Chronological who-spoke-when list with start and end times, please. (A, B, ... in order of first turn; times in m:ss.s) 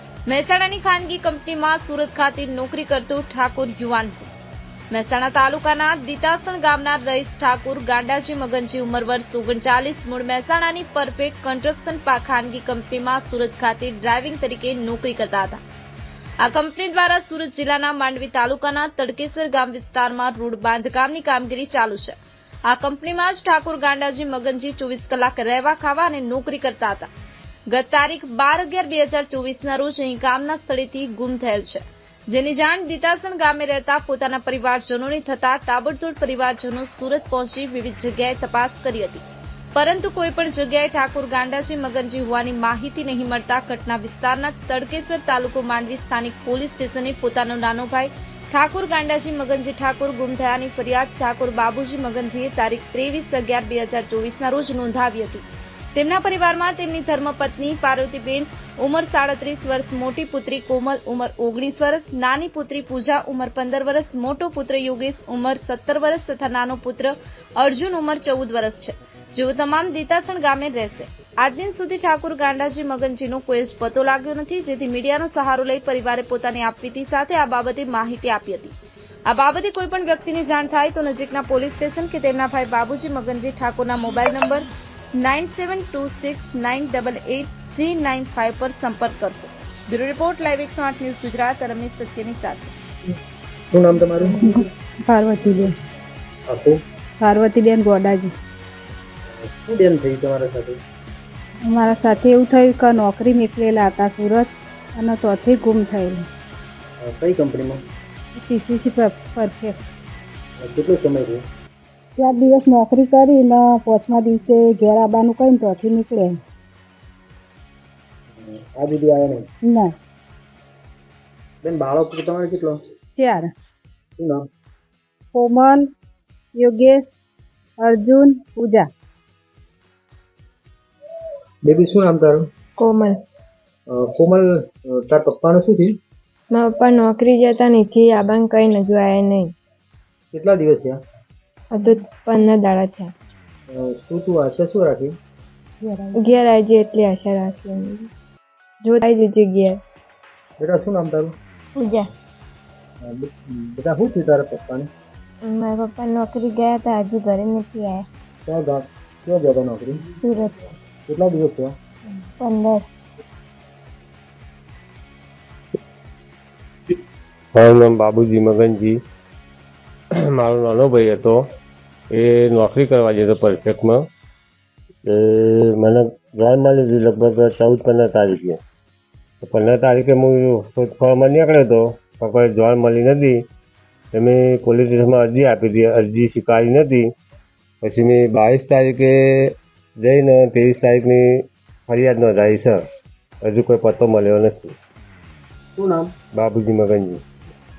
0:00.3-0:04.3 A
0:04.9-0:15.6 A
0:16.4-0:27.1 A
0:27.7-1:18.7 A
1:19.3-1:32.7 A
1:33.7-1:34.4 B
1:34.4-1:35.7 C
1:36.5-1:36.8 B
1:37.2-1:38.3 C
1:39.4-1:40.8 B
1:41.7-1:46.3 C
1:47.0-1:47.8 B
1:48.4-1:49.8 C
1:50.6-1:51.4 B
1:52.2-1:56.4 C
1:58.3-1:59.4 B
1:59.6-1:59.9 C
2:01.6-2:02.8 B
2:03.2-2:03.5 C
2:04.2-2:04.4 B
2:05.3-2:05.9 C
2:06.6-2:07.1 C
2:07.8-2:08.9 C
2:11.6-2:12.4 B
2:12.8-2:13.2 D
2:13.9-2:16.0 B
2:16.5-2:19.5 D
2:20.3-2:21.0 B
2:21.7-2:23.1 D
2:23.8-2:25.1 B
2:25.8-2:26.3 C
2:26.2-2:28.1 D
2:28.8-2:29.8 D
2:30.6-2:31.3 B
2:31.8-2:32.0 D
2:33.0-2:34.9 B
2:35.4-2:38.0 D
2:38.5-2:40.1 B
2:40.2-2:40.5 D
2:41.1-2:41.7 B
2:42.4-2:42.8 D
2:47.5-2:49.0 E
2:50.2-2:51.4 E
2:52.1-2:54.0 E
2:55.0-2:58.6 E
2:59.4-3:03.4 E
3:04.1-3:07.1 E
3:07.8-3:12.8 E
3:13.4-3:14.8 E
3:15.8-3:16.1 B
3:16.3-3:17.2 E